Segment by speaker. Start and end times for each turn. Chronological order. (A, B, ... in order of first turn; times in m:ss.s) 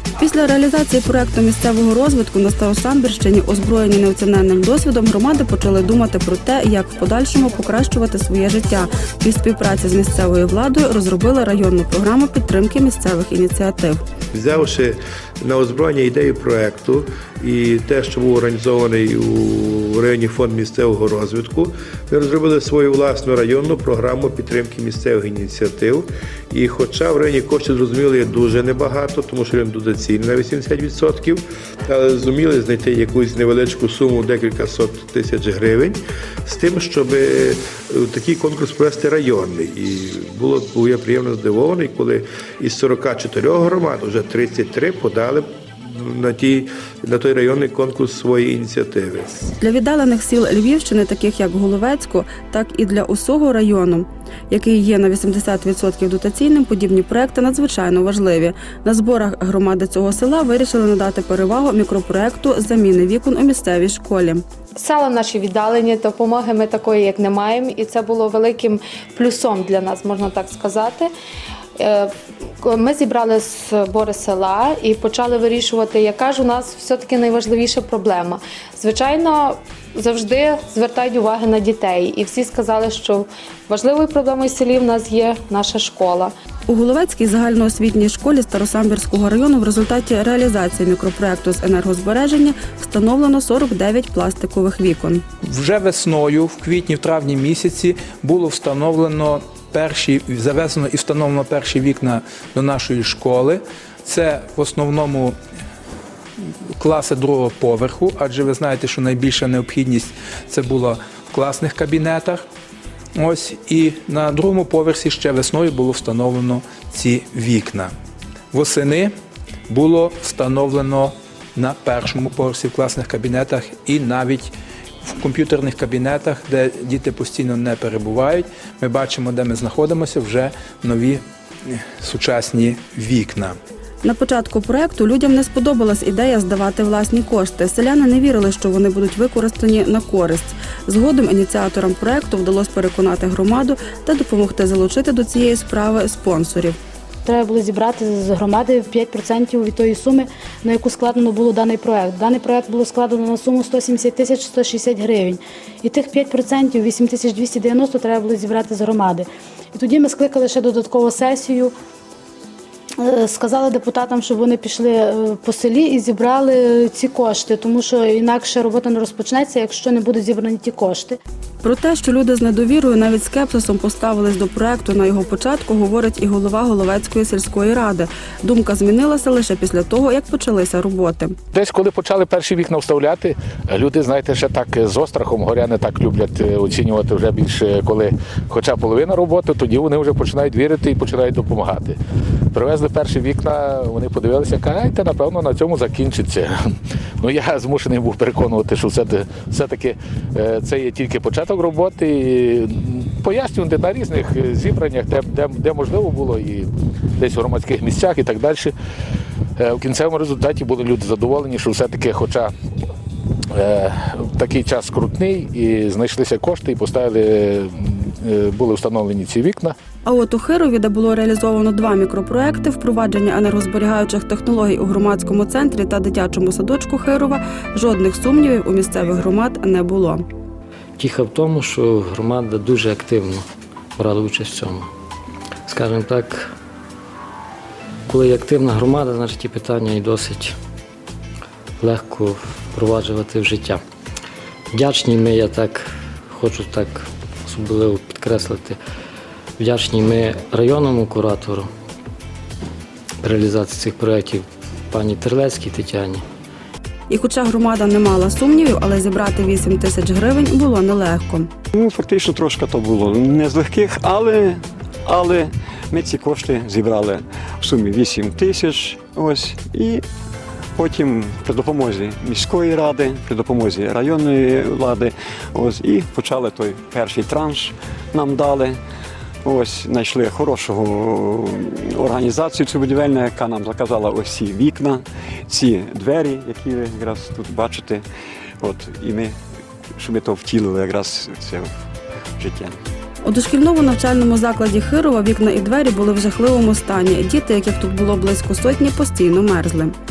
0:00.2-0:14.0 A
0:14.3-0:49.4 B
0:49.6-1:04.4 A
1:04.8-1:11.1 C
1:11.8-1:12.1 C
1:12.6-1:26.3 C
1:26.7-1:35.2 A
1:35.4-1:45.4 D
1:46.8-1:52.4 D
1:53.2-1:57.9 D
1:58.5-1:59.1 D
1:59.7-2:04.5 D
2:05.0-2:13.6 D
2:14.0-2:26.8 A
2:27.2-2:41.7 E
2:43.0-2:51.2 E
2:51.6-3:01.4 A
3:01.5-3:12.0 F
3:12.5-3:16.6 F
3:17.2-3:28.7 F
3:29.6-3:32.5 F
3:33.5-3:39.7 F
3:40.0-3:50.2 A
3:51.0-3:53.4 G
3:54.0-3:54.9 G
3:55.7-3:56.5 G
3:58.1-4:00.6 G
4:01.8-4:03.8 G
4:04.7-4:08.8 G
4:09.6-4:11.7 G
4:13.2-4:16.2 G
4:17.1-4:21.5 A
4:21.7-4:30.0 H
4:30.7-4:38.8 H
4:39.4-4:48.0 H
4:48.6-4:49.4 H
4:49.9-4:51.7 H
4:52.3-4:52.8 H
4:53.2-4:59.9 A